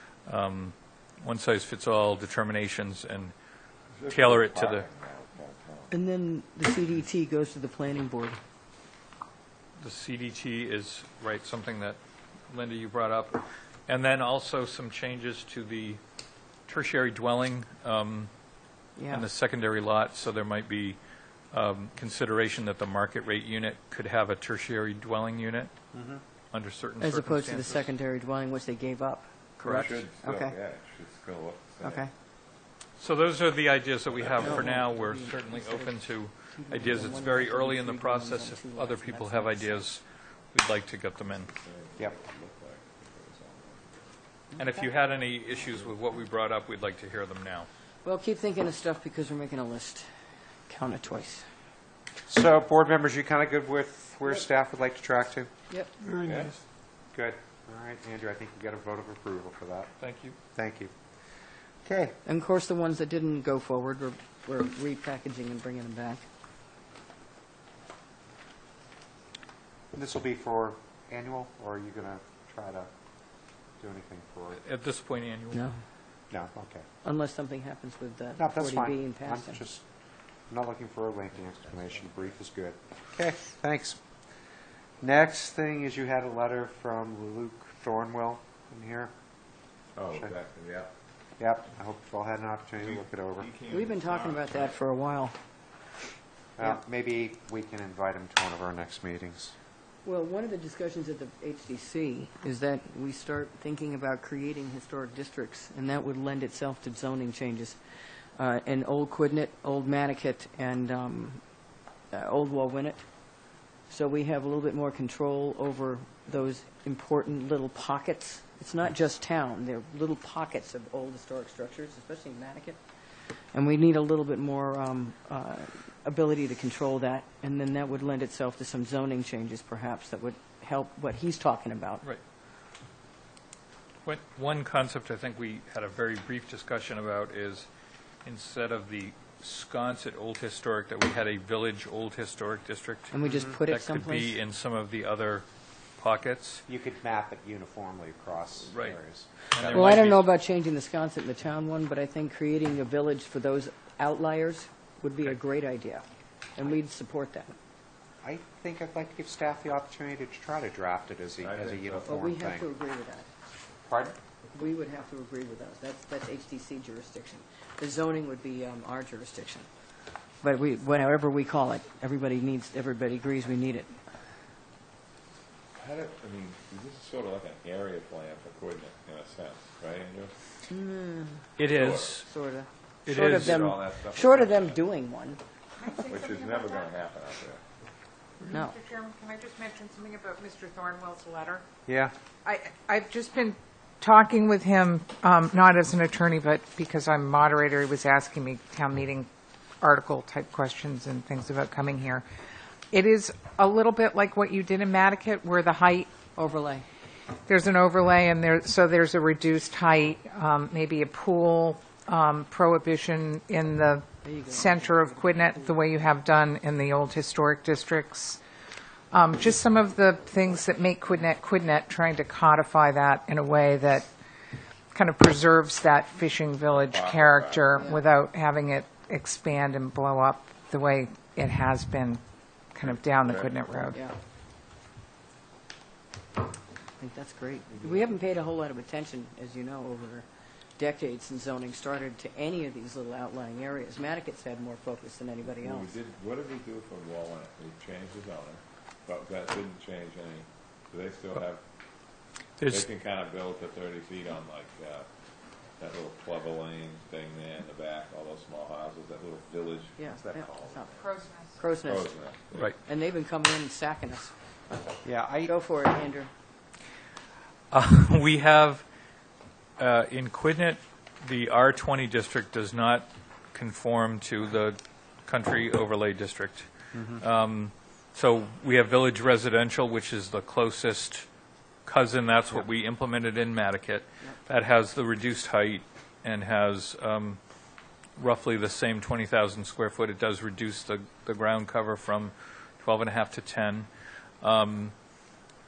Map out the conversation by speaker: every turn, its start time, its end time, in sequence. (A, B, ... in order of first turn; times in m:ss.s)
0:00.3-0:03.3 A
0:04.0-0:06.0 B
0:04.1-0:04.8 A
0:05.9-0:08.4 C
0:09.8-0:12.0 A
0:12.5-0:16.0 A
0:16.7-0:18.3 A
0:19.0-0:19.3 C
0:19.1-0:21.0 A
0:21.5-0:25.7 A
0:25.9-0:26.2 D
0:26.5-0:27.9 A
0:27.0-0:30.6 C
0:29.6-0:32.1 B
0:31.8-0:32.1 C
0:33.0-0:41.5 A
0:34.1-0:34.7 B
0:34.4-0:39.9 C
0:41.2-0:44.1 B
0:44.5-0:44.9 C
0:44.6-0:47.7 A
0:45.6-0:45.9 B
0:48.0-0:50.1 C
0:50.7-0:51.5 C
0:52.3-0:55.5 D
0:56.0-0:56.6 A
0:56.2-0:56.5 B
0:57.1-0:59.9 D
1:00.0-1:00.4 A
1:00.6-1:00.9 D
1:01.8-1:02.2 D
1:02.2-1:06.2 C
1:09.9-1:12.9 D
1:13.8-1:14.6 D
1:14.6-1:15.6 A
1:15.5-1:15.8 C
1:16.3-1:16.8 D
1:17.0-1:19.6 C
1:18.4-1:19.8 D
1:20.5-1:24.0 D
1:21.8-1:22.2 B
1:25.0-1:29.1 D
1:30.0-1:30.9 B
1:31.4-1:33.5 D
1:32.8-1:34.6 B
1:33.7-1:35.4 C
1:36.6-1:39.5 D
1:40.0-1:47.8 C
1:48.4-1:51.4 C
1:52.1-1:53.0 C
1:53.9-2:02.8 C
2:03.5-2:12.0 C
2:14.0-2:17.7 A
2:18.2-2:25.5 A
2:23.1-2:24.4 C
2:23.2-2:23.6 D
2:26.0-2:26.6 A
2:26.7-2:30.0 D
2:28.7-2:29.0 A
2:29.5-2:30.3 A
2:29.7-2:36.0 C
2:36.6-2:37.6 C
2:38.2-2:42.7 D
2:41.4-2:42.2 B
2:42.1-2:43.3 C
2:43.9-2:44.2 D
2:44.5-2:49.7 C
2:50.4-2:54.0 C
2:55.8-3:00.3 B
3:00.7-3:01.6 C
3:01.6-3:02.2 A
3:01.7-3:02.2 B
3:02.2-3:05.4 C
3:03.1-3:03.6 A
3:03.2-3:04.8 B
3:05.8-3:06.9 E
3:06.1-3:07.6 B
3:08.5-3:11.6 E
3:08.5-3:08.7 C
3:11.9-3:12.1 D
3:12.4-3:19.3 E
3:19.8-3:22.2 E
3:22.9-3:26.1 E
3:26.4-3:26.9 C
3:27.5-3:38.4 E
3:34.2-3:35.8 C
3:39.1-3:44.1 E
3:44.9-3:52.2 E
3:46.7-3:47.9 B
3:47.7-3:48.1 C
3:52.7-3:54.0 E
3:53.2-3:53.6 B
3:57.0-4:06.0 C
4:05.6-4:11.6 B
4:12.6-4:12.8 A
4:12.6-4:15.1 B
4:15.8-4:21.1 B
4:20.0-4:22.2 C
4:21.0-4:21.6 E
4:21.8-4:22.8 B
4:22.8-4:24.3 C
4:25.0-4:25.5 D
4:25.4-4:26.3 C
4:27.7-4:28.8 A
4:29.8-4:41.3 A
4:36.9-4:37.2 D
4:41.8-4:47.4 A
4:48.2-4:53.9 A
4:54.4-4:55.0 A